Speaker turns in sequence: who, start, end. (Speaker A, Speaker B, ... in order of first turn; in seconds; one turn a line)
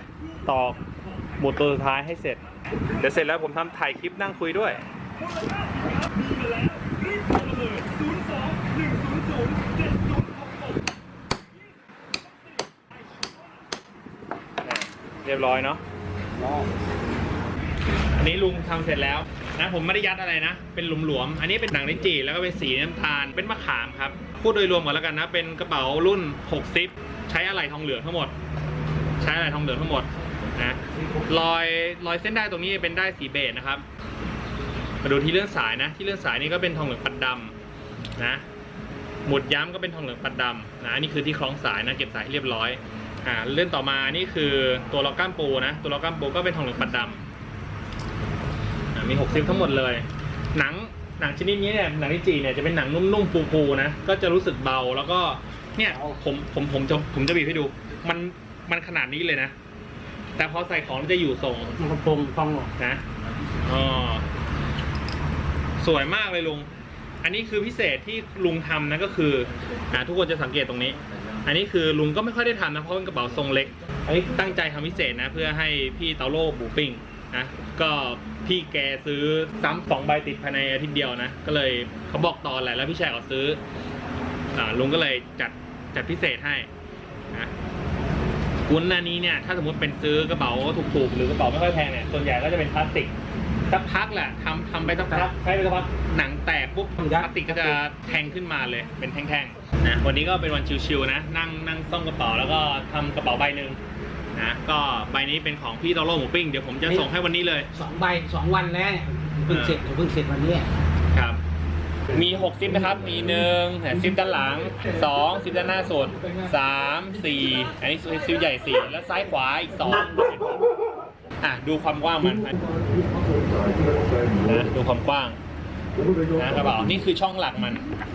Speaker A: 0.5-0.8
Speaker A: 1.4-2.4
Speaker A: 3.0-4.8
Speaker A: 14.6-15.8
Speaker B: 16.4-16.7
Speaker A: 18.1-28.3
Speaker A: 29.2-33.9
Speaker A: 35.0-37.5
Speaker A: 38.2-38.4
Speaker A: 39.2-47.2
Speaker A: 49.0-59.5
Speaker B: 55.9-56.2
Speaker A: 60.4-61.8
Speaker B: 61.8-62.7
Speaker A: 62.8-63.0
Speaker A: 63.6-64.3
Speaker A: 65.8-66.7
Speaker A: 67.2-83.6
Speaker A: 84.5-86.7
Speaker A: 88.7-93.1
Speaker A: 93.7-103.8
Speaker B: 97.0-97.8
Speaker A: 104.3-107.7
Speaker B: 107.7-110.7
Speaker A: 109.5-109.8
Speaker A: 111.1-111.4
Speaker A: 112.1-120.7
Speaker A: 121.4-122.5
Speaker A: 124.4-125.4
Speaker A: 126.3-127.8